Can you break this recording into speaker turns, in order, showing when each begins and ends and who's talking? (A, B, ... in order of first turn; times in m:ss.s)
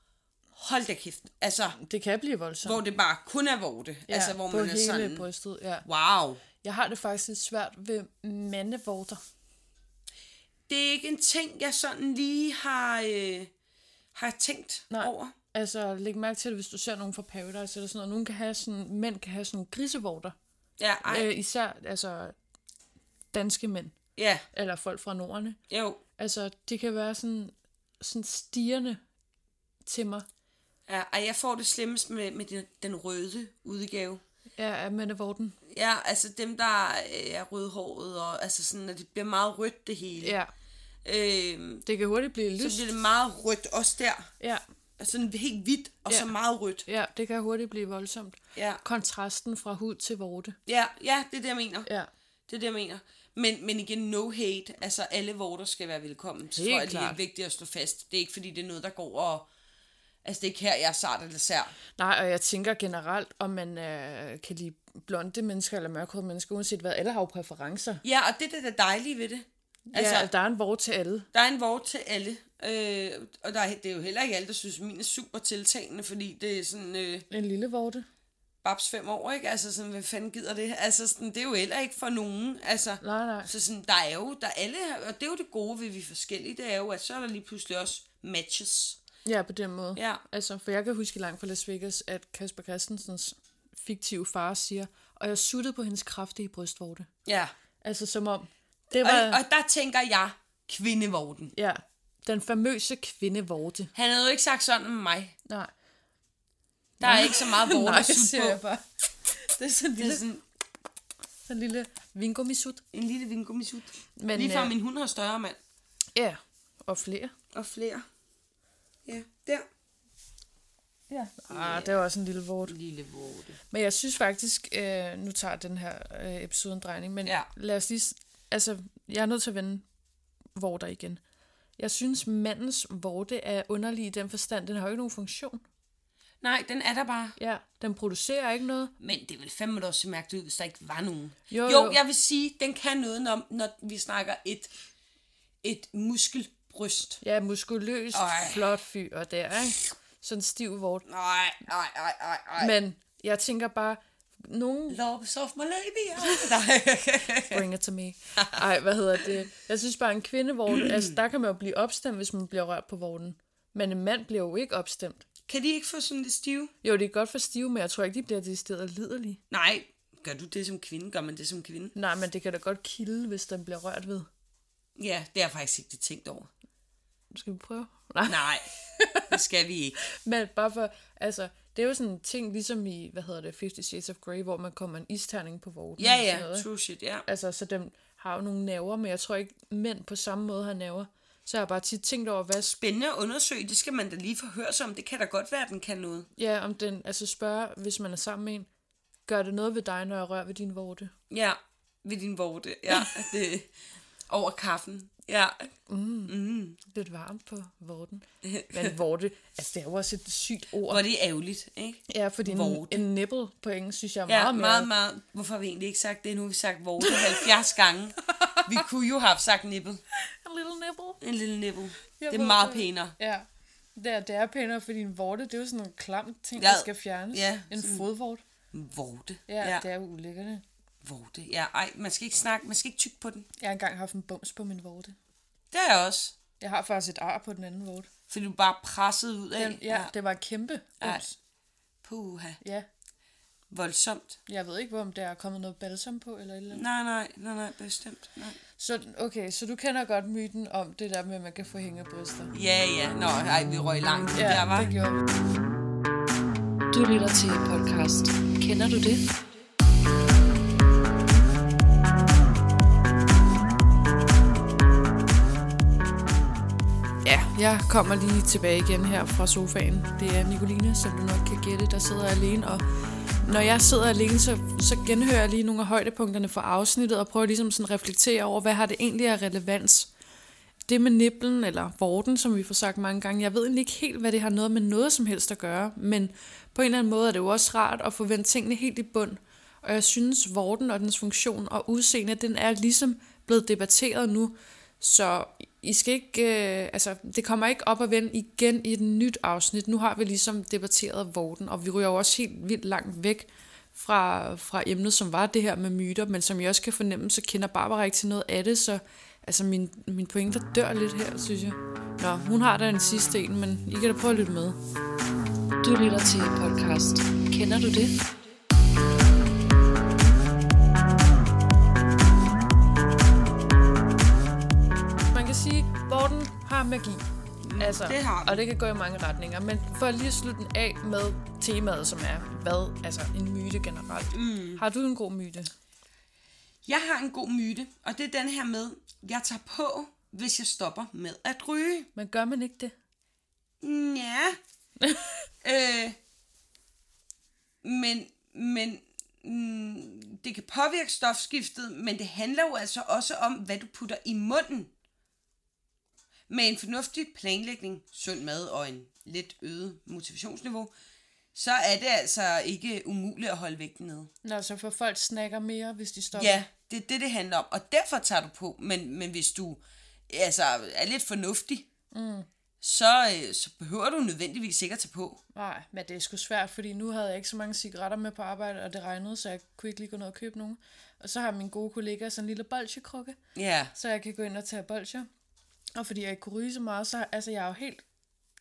0:00.6-0:01.8 A
0:01.8-0:02.8 B
0:02.6-0:05.3 A
0:04.1-0:05.9 B
0:05.8-0:06.4 A
0:06.6-0:09.2 B
0:10.7-0:13.5 A
0:14.1-0:15.4 A
0:14.9-0:20.3 B
0:20.8-0:21.3 A
0:21.0-0:22.4 B
0:23.3-0:24.0 B
0:24.2-0:24.4 A
0:24.5-0:25.6 B
0:25.7-0:26.0 A
0:26.2-0:29.0 B
0:29.9-0:30.3 B
0:30.9-0:34.2 A
0:34.6-0:35.6 B
0:35.7-0:40.4 A
0:40.2-0:40.5 B
0:41.0-0:41.8 A
0:41.8-0:42.9 B
0:42.6-0:44.3 A
0:45.0-0:46.9 A
0:46.9-0:50.6 B
0:48.6-0:48.8 A
0:50.7-0:51.9 A
0:52.5-0:59.5 A
0:56.5-0:57.2 B
1:00.2-1:01.8 A
1:02.0-1:08.0 B
1:08.0-1:10.3 A
1:09.9-1:11.3 B
1:11.3-1:17.3 A
1:17.3-1:18.0 B
1:18.6-1:29.0 A
1:23.0-1:23.5 B
1:29.2-1:37.1 B
1:30.0-1:30.2 A
1:37.3-1:37.5 A
1:37.8-1:39.4 B
1:39.0-1:41.5 A
1:41.5-1:43.9 B
1:43.9-1:45.3 A
1:45.5-1:45.7 B
1:47.0-1:50.2 B
1:47.0-1:48.6 A
1:50.0-1:50.4 A
1:51.5-1:52.8 B
1:52.9-1:55.6 A
1:54.2-1:54.8 B
1:56.2-1:57.3 B
1:57.5-1:58.1 A
1:59.1-1:59.7 A
2:01.1-2:02.8 B
2:01.5-2:02.0 A
2:02.7-2:03.6 A
2:03.7-2:09.9 B
2:10.6-2:11.2 B
2:11.8-2:15.6 B
2:16.4-2:17.4 A
2:17.4-2:19.0 B
2:19.0-2:24.7 A
2:21.5-2:22.0 B
2:25.6-2:27.2 A
2:27.2-2:31.1 B
2:28.1-2:28.7 A
2:31.1-2:32.7 A
2:32.6-2:35.0 B
2:34.9-2:37.7 A
2:37.5-2:45.2 B
2:40.7-2:41.2 A
2:45.5-2:46.7 A
2:46.8-2:49.4 B
2:49.5-2:51.9 A
2:51.9-2:54.3 B
2:55.0-2:56.5 A
2:57.3-2:59.3 B
2:58.3-2:58.7 A
2:59.3-3:00.0 A
3:00.1-3:06.7 B
3:06.0-3:07.3 A
3:07.3-3:12.8 B
3:12.8-3:16.3 A
3:16.4-3:18.7 B
3:19.3-3:21.1 B
3:21.3-3:23.7 A
3:24.3-3:25.7 A
3:25.9-3:31.0 B
3:26.3-3:26.8 A
3:28.4-3:28.9 A
3:30.9-3:33.0 A
3:32.1-3:34.9 B
3:34.3-3:40.0 A
3:37.0-3:37.3 B
3:38.3-3:38.6 B
3:40.2-3:41.2 B
3:41.2-3:43.2 A
3:42.2-3:48.4 B
3:46.6-3:48.1 A
3:48.7-3:49.8 A
3:49.5-3:50.6 B
3:51.0-3:53.5 A
3:53.6-3:55.2 B
3:55.7-3:56.4 A
3:56.6-3:58.1 B
3:58.3-4:00.1 A
3:59.6-4:01.4 B
4:02.0-4:02.6 A
4:02.6-4:02.9 B
4:03.7-4:04.4 A
4:04.5-4:06.8 B
4:06.7-4:08.6 A
4:08.8-4:12.5 B
4:12.5-4:14.9 A
4:14.3-4:15.2 B
4:16.9-4:19.2 C
4:17.0-4:19.2 B
4:27.2-4:32.9 B
4:33.4-4:40.1 B
4:40.9-5:14.8 B
5:15.8-5:18.1 B
5:15.9-5:17.4 C
5:25.3-5:27.2 B
5:27.6-5:28.6 A
5:27.8-5:35.7 B
5:34.3-5:34.8 A
5:36.8-5:42.1 A
5:42.2-5:42.9 B
5:43.8-5:44.6 A
5:45.0-5:45.3 B
5:45.6-5:46.2 A
5:47.8-5:54.9 A
5:56.5-6:00.9 A
6:01.5-6:04.3 A
6:04.4-6:06.7 B
6:06.3-6:11.9 A
6:12.1-6:12.5 B
6:12.8-6:15.4 A
6:15.5-6:23.4 B
6:23.6-6:23.9 A
6:23.9-6:25.3 B
6:26.0-6:28.0 B